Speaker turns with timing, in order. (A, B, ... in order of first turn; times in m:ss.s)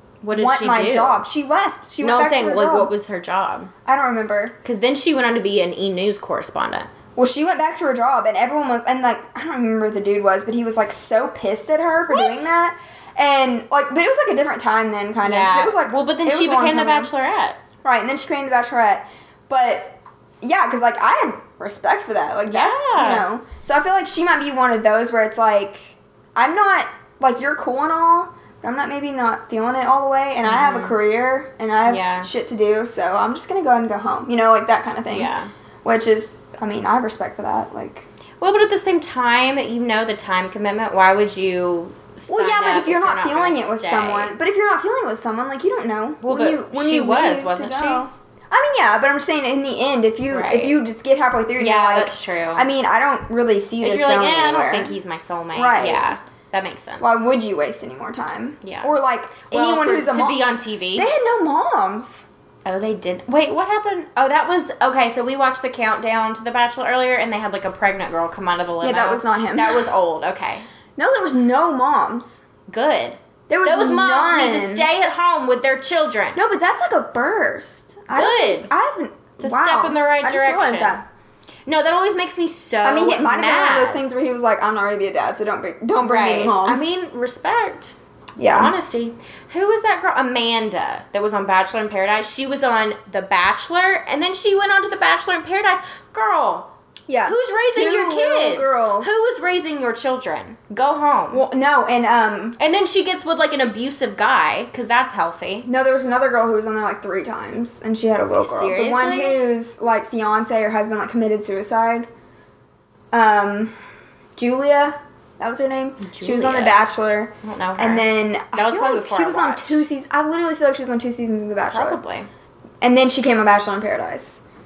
0:00.2-0:01.2 A
0:00.3-0:02.9 B
0:02.0-0:03.7 A
0:03.8-0:04.5 B
0:04.6-0:06.9 A
0:07.2-0:17.1 B
0:12.1-0:12.5 A
0:15.2-0:17.6 A
0:17.8-0:35.3 B
0:22.5-0:23.2 A
0:30.4-0:31.0 A
0:31.8-0:32.3 A
0:35.1-0:35.5 A
0:35.8-0:38.1 B
0:38.4-0:44.4 A
0:42.3-0:54.9 B
0:46.2-0:48.0 A
0:50.3-0:50.8 A
0:51.6-0:52.7 A
0:53.8-0:57.2 A
0:55.5-0:56.0 B
0:57.0-1:00.4 B
0:58.6-0:59.0 A
0:59.5-1:01.1 A
1:00.9-1:02.3 B
1:02.6-1:10.6 A
1:08.8-1:09.9 B
1:11.0-1:12.4 B
1:12.7-1:16.4 A
1:13.5-1:14.9 B
1:16.4-1:21.0 B
1:18.1-1:18.7 A
1:19.4-1:21.0 A
1:21.7-1:24.0 A
1:22.8-1:26.9 B
1:26.0-1:36.7 A
1:28.4-1:28.7 B
1:37.1-1:39.2 B
1:37.2-1:41.4 A
1:41.3-1:42.6 B
1:42.6-1:45.7 A
1:45.6-1:52.1 B
1:48.4-1:49.4 A
1:53.1-1:53.7 B
1:54.4-2:02.0 B
1:56.0-1:56.8 A
1:57.4-1:59.8 A
2:01.7-2:02.3 A
2:02.8-2:04.4 B